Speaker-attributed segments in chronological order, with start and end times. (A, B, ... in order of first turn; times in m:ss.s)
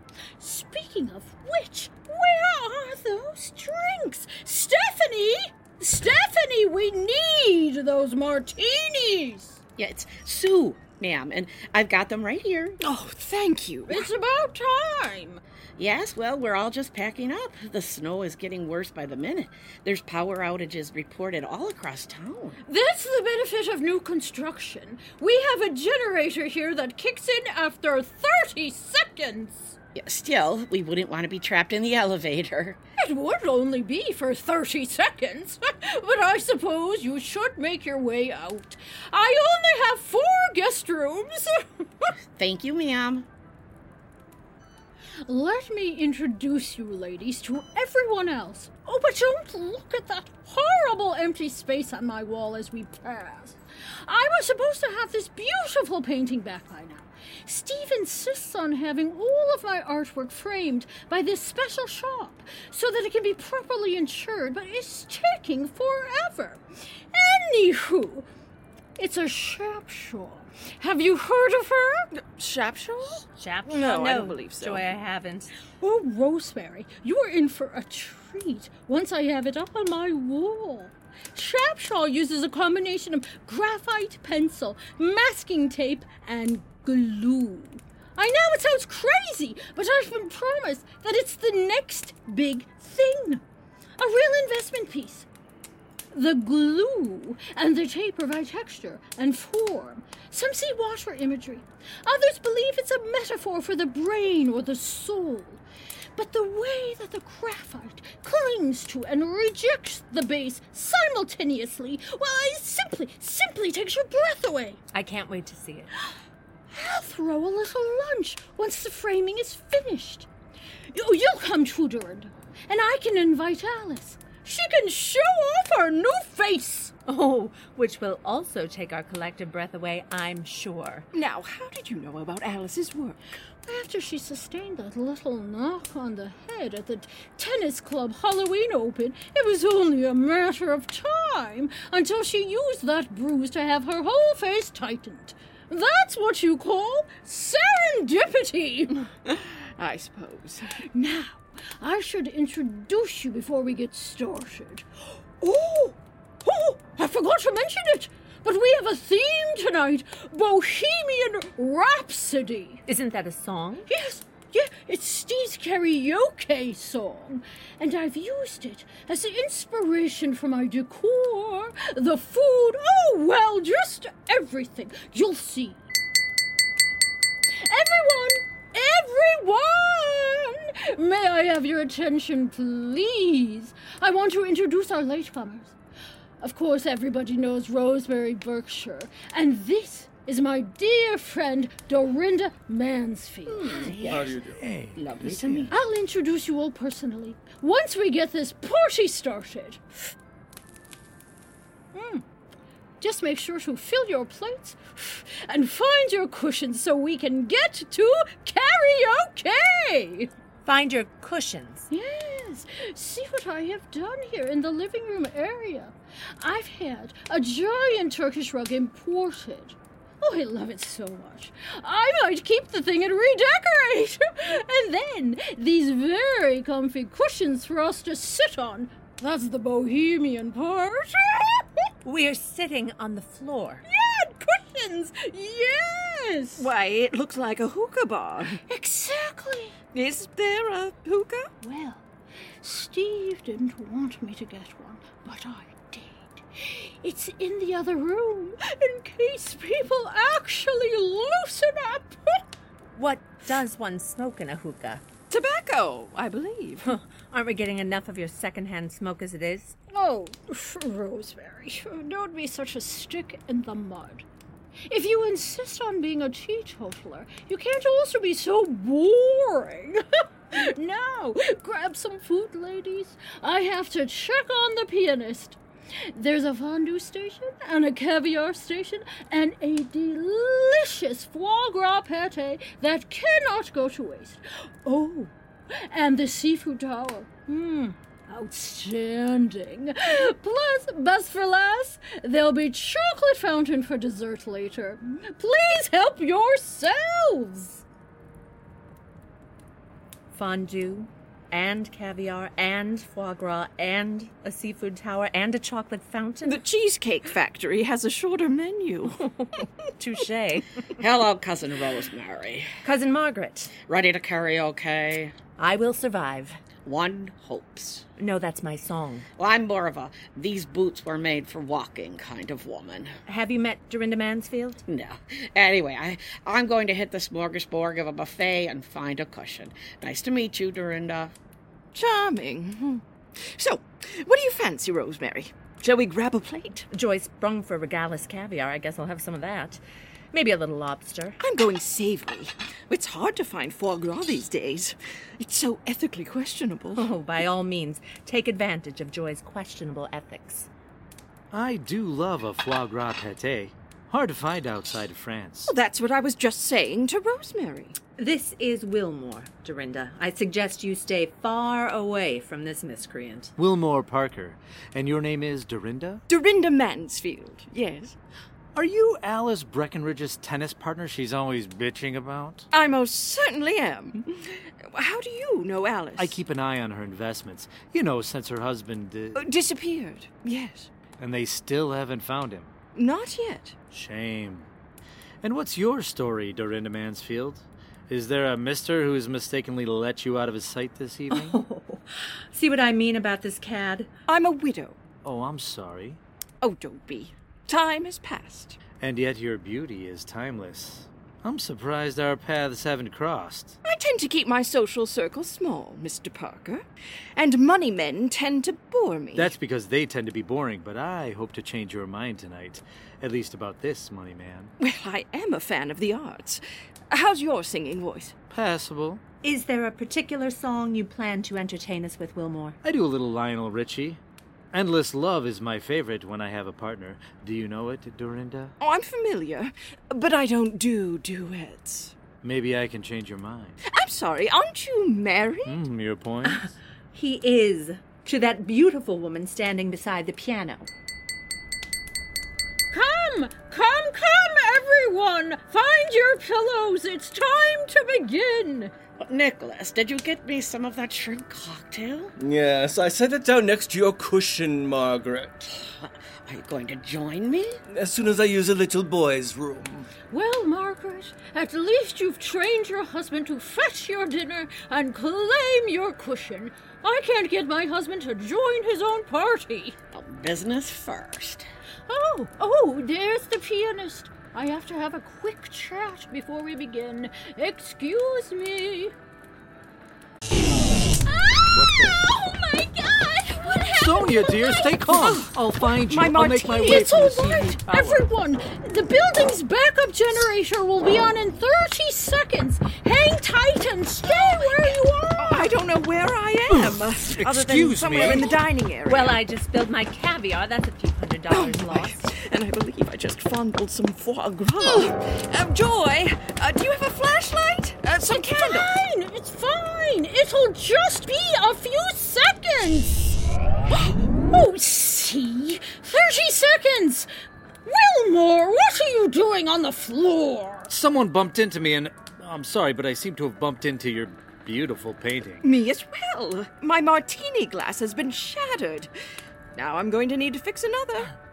0:00.4-0:09.6 A
0:09.8-0:12.8 B
0:12.8-0:14.1 C
0:13.9-0:15.4 A
0:15.8-0:22.6 B
0:22.6-0:29.8 A
0:30.0-0:32.8 B
0:33.0-0:42.1 A
0:42.4-0:43.3 B
0:45.3-1:06.6 A
1:07.1-1:08.3 A
1:09.0-1:12.1 A
1:12.1-1:15.0 C
1:13.3-1:15.5 D
1:15.8-1:33.4 A
1:34.0-1:35.3 A
1:36.1-1:45.6 A
1:46.2-1:54.8 A
1:54.9-1:55.9 D
1:56.7-2:00.3 A
2:00.9-2:06.9 A
2:07.1-2:11.1 D
2:11.1-2:13.2 C
2:13.6-2:29.0 A
2:29.1-2:30.9 C
2:30.9-2:34.9 A
2:35.4-2:42.8 A
2:42.9-2:43.9 D
2:43.9-2:55.9 A
2:57.6-3:05.8 A
3:06.4-3:13.9 A
3:13.5-3:14.3 B
3:14.0-3:14.6 E
3:14.6-3:15.7 F
3:15.0-3:15.7 B
3:15.7-3:19.8 A
3:21.9-3:22.2 A
3:23.0-3:30.3 A
3:30.6-3:31.9 D
3:31.9-3:51.8 A
3:52.0-3:53.8 D
3:53.9-3:56.7 A
3:56.6-3:58.6 C
3:58.7-3:59.8 A
3:59.9-4:01.5 C
4:01.6-4:02.1 A
4:02.6-4:12.4 A
4:12.9-4:15.0 D
4:15.3-4:16.9 C
4:16.8-4:19.8 D
4:19.9-4:24.3 A
4:24.9-4:35.6 A
4:36.1-4:57.8 A
5:00.3-5:06.6 D
5:06.4-5:09.3 C
5:09.2-5:10.9 D
5:11.0-5:12.7 B
5:12.8-5:13.8 D
5:13.8-5:15.4 B
5:15.6-5:16.6 D
5:16.8-5:18.0 B
5:18.2-5:19.3 D
5:19.4-5:23.2 B
5:23.3-5:24.8 D
5:24.9-5:31.3 B
5:31.9-5:36.9 C
5:36.9-5:39.8 D
5:40.3-5:41.4 D
5:41.4-5:47.1 C
5:47.0-5:50.7 D
5:51.5-5:55.7 F
5:55.6-5:58.0 C
5:58.2-6:03.5 D
6:03.6-6:06.2 F
6:06.3-6:08.2 C
6:08.8-6:12.7 F
6:12.7-6:16.4 C
6:16.2-6:19.4 F
6:19.4-6:20.9 C
6:21.2-6:22.7 F
6:22.9-6:23.8 C
6:23.9-6:24.7 F
6:25.4-6:31.6 F
6:31.3-6:34.1 D
6:34.3-6:35.0 C
6:35.2-6:36.2 F
6:36.6-6:38.8 C
6:39.0-6:43.8 F
6:43.8-6:46.8 C
6:47.4-6:49.5 C
6:49.4-6:54.7 F
6:54.8-6:58.4 C
6:58.5-6:59.2 F
6:59.4-7:02.8 D
7:02.8-7:04.2 F
7:04.7-7:08.8 F
7:08.8-7:12.1 C
7:12.4-7:13.8 F
7:13.8-7:15.8 C
7:15.7-7:16.7 F
7:16.4-7:20.9 D
7:22.9-7:28.9 A
7:29.2-7:32.3 B
7:32.4-7:35.7 E
7:36.0-7:37.8 B
7:37.9-7:40.1 E
7:40.3-7:50.0 A
7:50.1-7:51.7 B
7:52.1-7:59.1 A
8:01.2-8:05.1 A
8:01.7-8:02.2 F
8:04.0-8:08.3 F
8:05.1-8:07.8 C
8:06.8-8:15.7 A
8:14.2-8:19.4 C
8:16.7-8:18.5 F
8:19.0-8:22.3 D
8:21.5-8:29.0 C
8:28.3-8:33.4 A
8:33.9-8:34.2 C
8:34.3-8:37.3 A
8:37.9-8:40.9 A
8:40.9-8:45.6 F
8:45.6-8:49.1 C
8:49.8-8:51.3 C